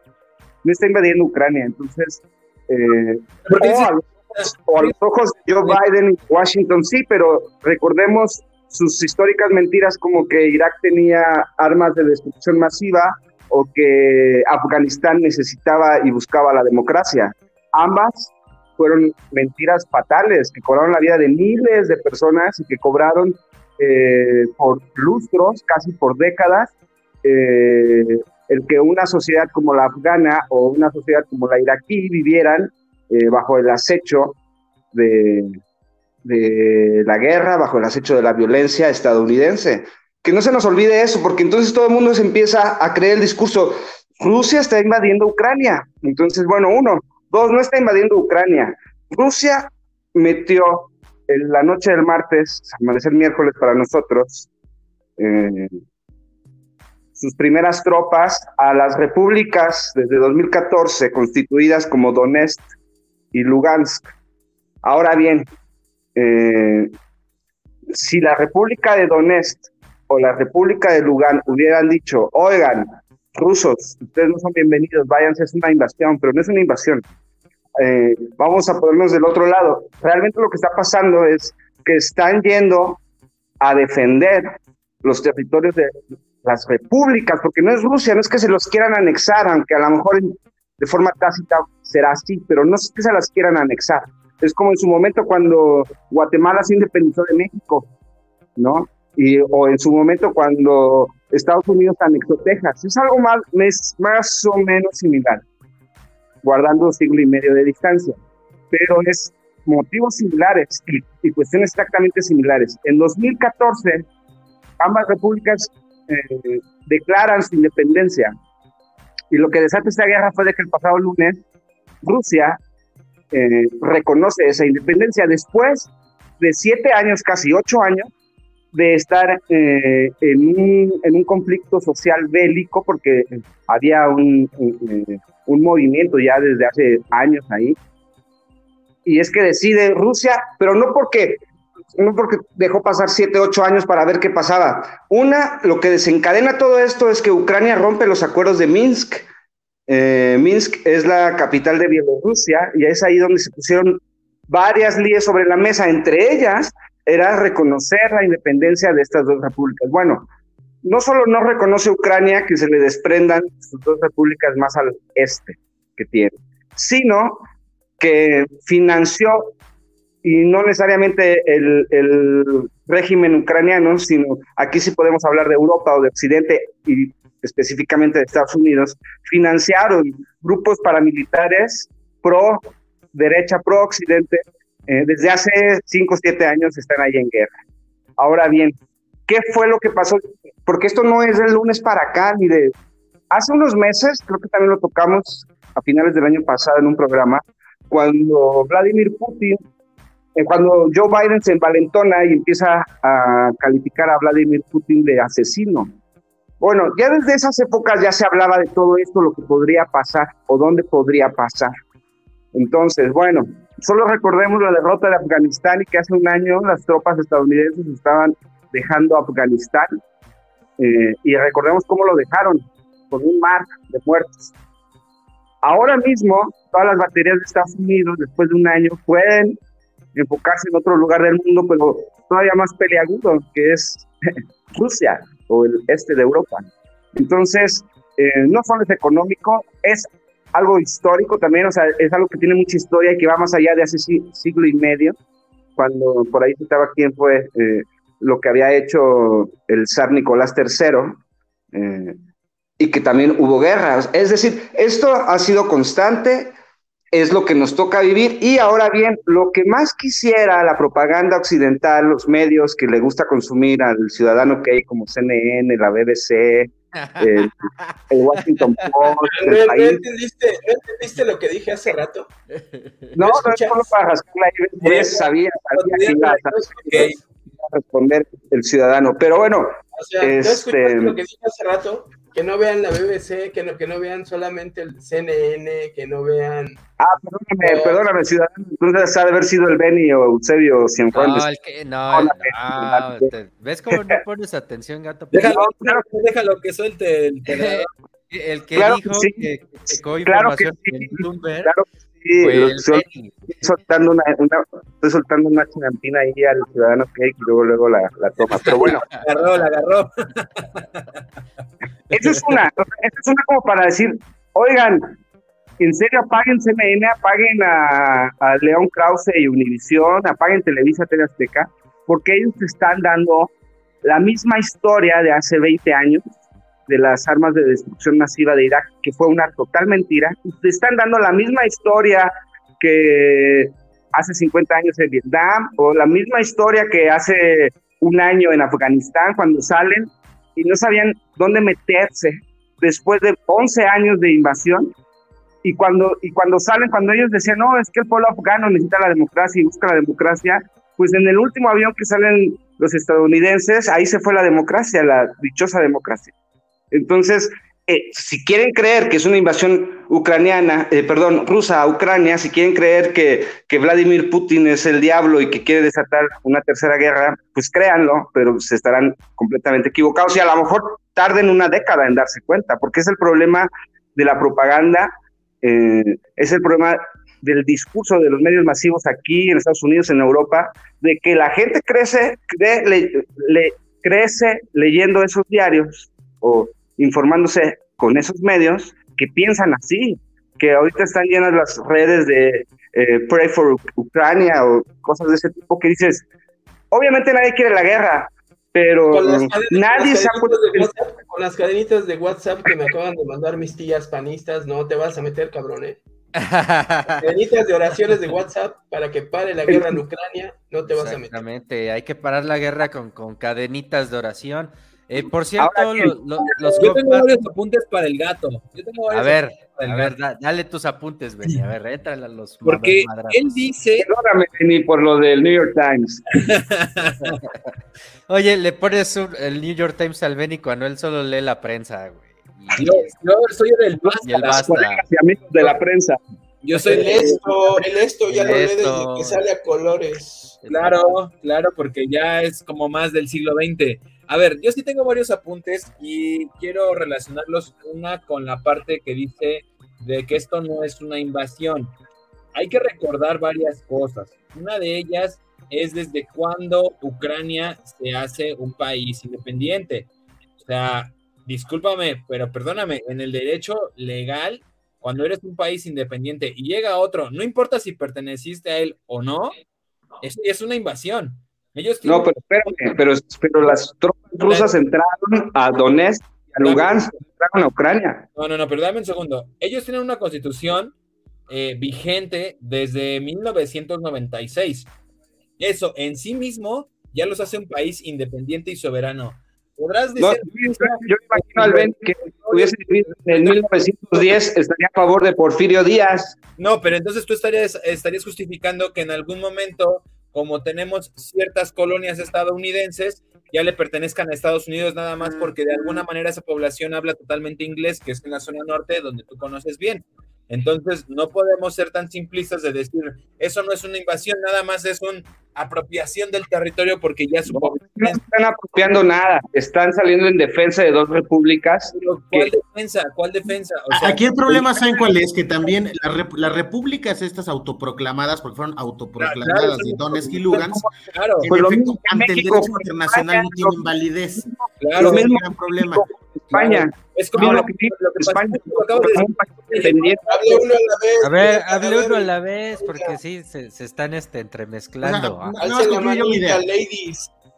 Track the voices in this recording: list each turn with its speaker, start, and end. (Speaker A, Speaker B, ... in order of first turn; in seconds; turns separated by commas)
Speaker A: 0.6-26.7, Speaker B: 3.5-5.0, Speaker A: 27.2-34.4, Speaker A: 34.9-35.6, Speaker A: 36.2-54.5, Speaker A: 55.2-55.8, Speaker A: 57.2-62.6, Speaker A: 63.3-64.1, Speaker A: 64.8-65.5, Speaker A: 66.2-66.9, Speaker A: 67.9-77.0, Speaker A: 77.8-83.0, Speaker A: 83.6-97.9, Speaker A: 98.6-105.4, Speaker A: 106.4-108.2, Speaker A: 108.7-114.0, Speaker A: 114.8-118.3, Speaker A: 119.3-121.4, Speaker A: 122.0-122.6, Speaker A: 123.3-128.1, Speaker A: 128.7-137.8, Speaker A: 139.1-141.4, Speaker A: 142.0-149.3, Speaker A: 149.9-160.3, Speaker A: 160.8-167.4, Speaker A: 168.0-169.5, Speaker A: 170.2-187.5, Speaker A: 188.2-188.8, Speaker A: 189.3-192.7, Speaker A: 193.3-199.6, Speaker A: 200.3-205.9, Speaker A: 206.6-211.7, Speaker A: 212.5-219.9, Speaker A: 220.8-224.5, Speaker A: 225.6-229.6, Speaker A: 230.1-245.2, Speaker A: 245.8-251.2, Speaker A: 251.7-252.2, Speaker A: 252.8-256.5, Speaker A: 257.1-267.6, Speaker C: 267.0-267.3, Speaker C: 267.8-268.9, Speaker A: 268.1-270.0, Speaker D: 269.3-272.3, Speaker C: 272.6-273.1, Speaker A: 273.1-281.2, Speaker D: 273.2-273.8, Speaker B: 274.8-277.1, Speaker D: 279.9-286.8, Speaker A: 287.0-291.5, Speaker D: 287.6-288.0, Speaker C: 291.1-295.6, Speaker A: 292.1-293.3, Speaker B: 295.3-297.9, Speaker A: 295.3-296.0, Speaker C: 297.5-301.7, Speaker A: 298.8-299.4, Speaker A: 300.2-303.0, Speaker C: 302.4-303.5, Speaker A: 303.6-309.1, Speaker C: 308.6-309.2, Speaker B: 309.1-310.9, Speaker A: 312.1-315.2, Speaker A: 315.8-323.5, Speaker A: 324.0-326.2, Speaker A: 326.9-344.9, Speaker A: 345.6-356.3, Speaker A: 356.9-375.1, Speaker A: 375.6-396.2, Speaker A: 396.9-400.9, Speaker D: 399.1-406.0, Speaker C: 406.4-407.2, Speaker D: 407.2-411.4, Speaker A: 409.7-409.9, Speaker C: 410.9-417.3, Speaker A: 415.6-416.1, Speaker B: 416.4-420.1, Speaker C: 419.1-423.6, Speaker B: 422.6-424.1, Speaker A: 424.0-426.2, Speaker B: 426.4-427.3, Speaker C: 427.2-427.7, Speaker C: 428.3-433.1, Speaker B: 432.8-434.7, Speaker A: 434.1-436.2, Speaker C: 434.2-435.1, Speaker B: 436.6-437.4, Speaker D: 436.8-440.6, Speaker A: 436.9-437.2, Speaker C: 438.3-439.4, Speaker C: 440.6-440.9, Speaker B: 440.7-451.9, Speaker B: 452.5-460.1, Speaker B: 460.6-469.6, Speaker B: 470.2-472.8, Speaker A: 472.0-478.2, Speaker B: 476.6-477.2, Speaker B: 478.4-480.9, Speaker B: 481.5-484.9, Speaker B: 485.6-492.7, Speaker A: 490.2-496.4, Speaker B: 493.3-493.6, Speaker B: 496.6-518.2, Speaker A: 517.5-522.5, Speaker B: 521.9-524.9, Speaker E: 523.9-536.1, Speaker B: 529.2-531.5, Speaker A: 530.6-530.9, Speaker A: 531.4-533.8, Speaker A: 534.4-540.5, Speaker B: 534.8-535.3, Speaker B: 536.5-540.2, Speaker D: 540.2-543.2, Speaker C: 541.2-545.5, Speaker E: 545.0-546.6, Speaker D: 545.6-547.3